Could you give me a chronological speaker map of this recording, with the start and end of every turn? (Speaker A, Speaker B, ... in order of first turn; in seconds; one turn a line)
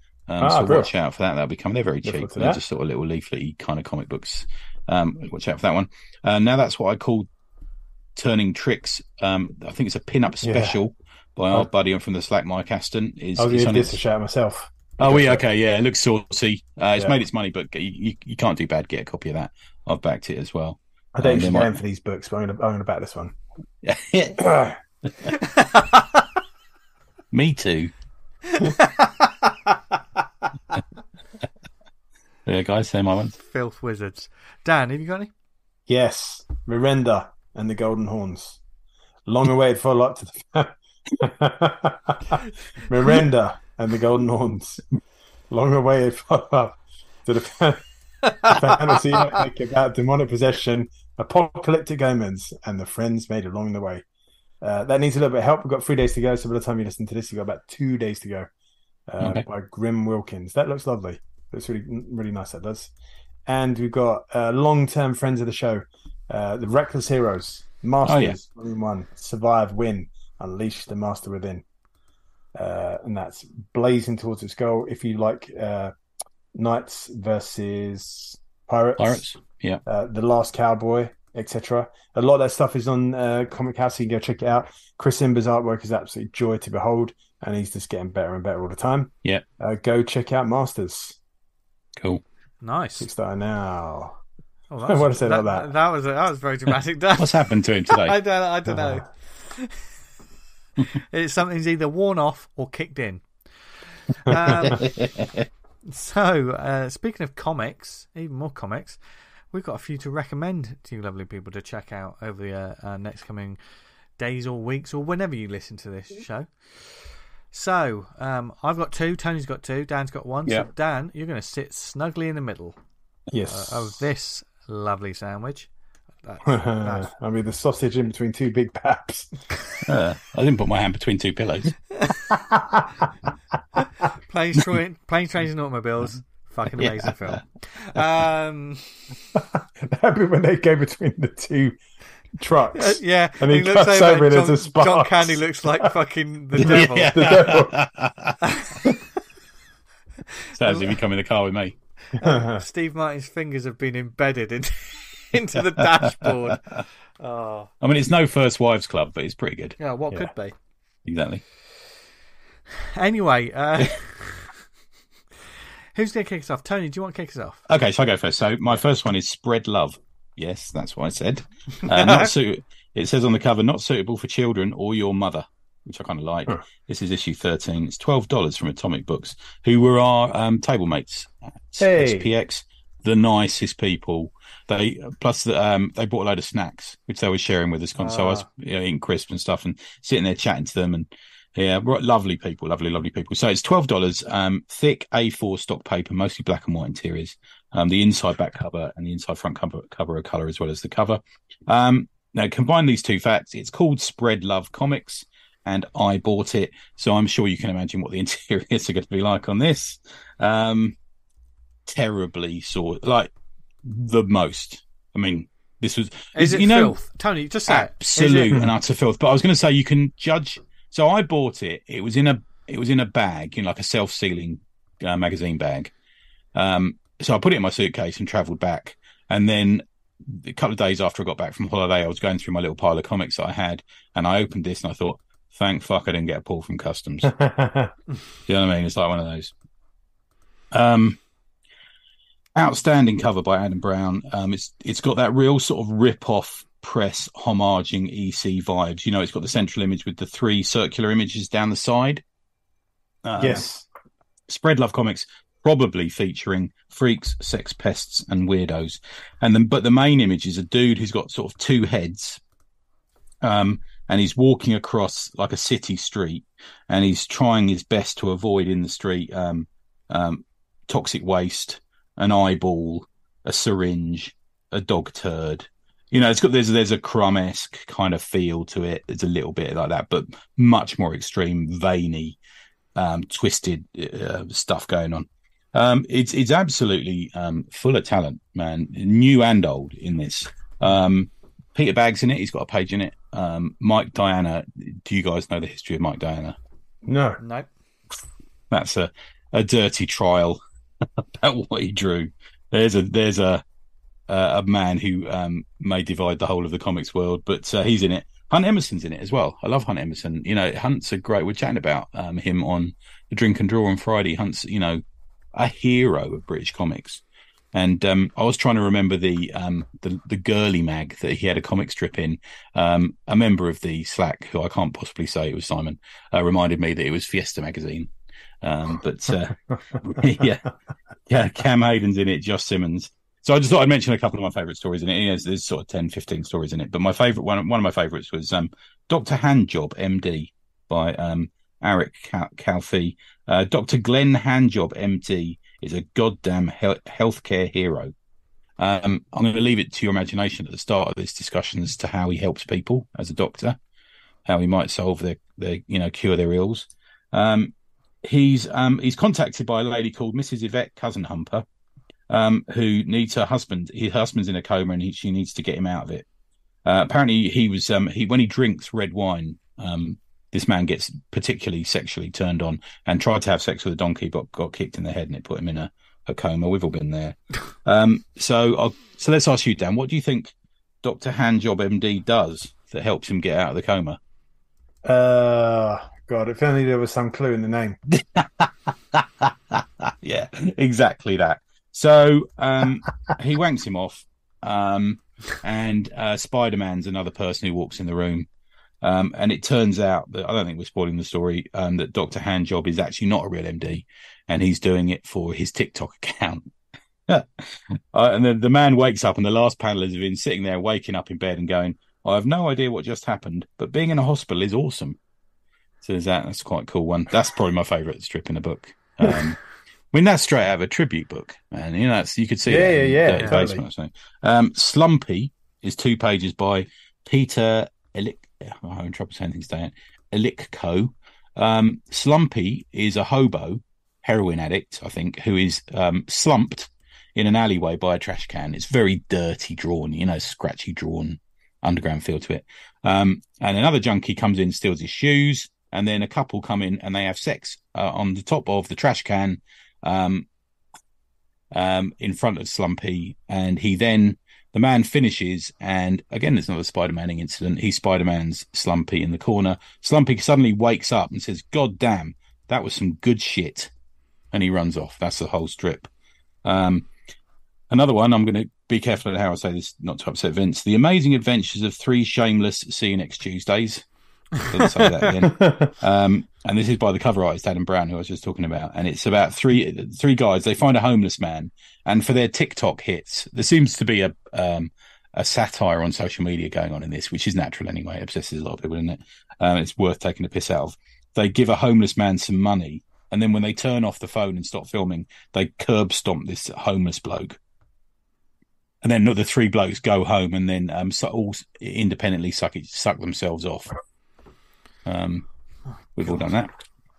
Speaker A: 0.3-7.3
Speaker B: 0.4-0.9
Speaker B: 2.0-2.6
Speaker A: 8.2-14.0
Speaker B: 10.4-10.8
Speaker B: 13.4-15.4
Speaker A: 15.0-21.8
Speaker B: 21.1-23.3
Speaker A: 23.8-24.5
Speaker B: 24.4-24.8
Speaker C: 25.4-26.0
Speaker A: 27.3-27.9
Speaker C: 28.5-29.7
Speaker A: 32.5-33.4
Speaker C: 33.4-35.3
Speaker B: 35.9-38.6
Speaker B: 39.3-44.8
Speaker B: 45.5-47.8
Speaker B: 48.4-54.0
Speaker B: 54.6-58.5
Speaker B: 59.1-62.9
Speaker A: 59.2-59.5
Speaker B: 63.5-71.6
Speaker A: 68.0-68.4
Speaker B: 72.5-75.9
Speaker B: 76.5-79.2
Speaker A: 79.0-79.8
Speaker B: 79.9-91.2
Speaker A: 92.0-92.2
Speaker C: 92.6-93.1
Speaker B: 93.0-94.2
Speaker C: 94.7-99.9
Speaker B: 94.8-95.7
Speaker A: 97.2-98.2
Speaker B: 98.7-99.0
Speaker C: 101.0-103.3
Speaker C: 104.2-104.9
Speaker C: 105.9-109.0
Speaker C: 109.5-113.6
Speaker C: 114.2-122.8
Speaker B: 123.3-124.0
Speaker C: 123.4-125.7
Speaker C: 126.2-127.1
Speaker B: 126.5-129.5
Speaker A: 129.8-131.8
Speaker C: 132.0-132.3
Speaker B: 132.3-132.9
Speaker C: 134.3-139.1
Speaker B: 139.3-141.8
Speaker B: 142.4-145.9
Speaker C: 142.8-147.5
Speaker A: 146.6-148.4
Speaker B: 146.6-147.8
Speaker C: 148.5-148.9
Speaker A: 150.6-151.8
Speaker C: 150.6-151.0
Speaker B: 152.2-152.6
Speaker C: 152.2-157.7
Speaker A: 157.8-159.8
Speaker C: 159.8-160.5
Speaker A: 161.1-161.4
Speaker C: 162.9-164.6
Speaker C: 165.9-167.7
Speaker A: 167.7-210.9
Speaker C: 171.9-172.3
Speaker B: 181.8-182.3
Speaker C: 188.0-188.4
Speaker A: 211.9-213.3
Speaker A: 213.8-216.9
Speaker C: 216.3-218.6
Speaker A: 217.7-225.9
Speaker A: 226.6-237.4
Speaker B: 237.3-237.9
Speaker A: 238.5-239.5
Speaker A: 240.7-241.2
Speaker A: 242.6-252.2
Speaker A: 253.2-253.7
Speaker B: 253.4-253.8
Speaker A: 254.5-262.4
Speaker A: 263.4-282.4
Speaker A: 283.0-296.6
Speaker B: 297.0-297.4
Speaker C: 297.4-297.7
Speaker A: 298.7-300.6
Speaker A: 301.2-303.6
Speaker A: 304.3-315.0
Speaker A: 315.6-317.2
Speaker A: 317.7-328.1
Speaker A: 328.6-330.7
Speaker A: 331.3-348.1
Speaker A: 348.8-353.8
Speaker A: 354.5-357.7
Speaker A: 358.2-361.6
Speaker A: 362.3-366.2
Speaker A: 366.9-384.2
Speaker B: 385.1-388.0
Speaker A: 388.1-398.5
Speaker A: 399.0-406.7
Speaker A: 407.3-415.2
Speaker A: 416.0-419.6
Speaker A: 420.1-450.5
Speaker B: 422.7-423.8
Speaker A: 451.7-463.9
Speaker A: 464.5-466.1
Speaker A: 466.6-467.1
Speaker A: 467.9-474.1
Speaker A: 474.6-497.6
Speaker B: 475.4-475.9
Speaker A: 499.0-504.0
Speaker A: 505.1-505.5
Speaker A: 506.2-506.8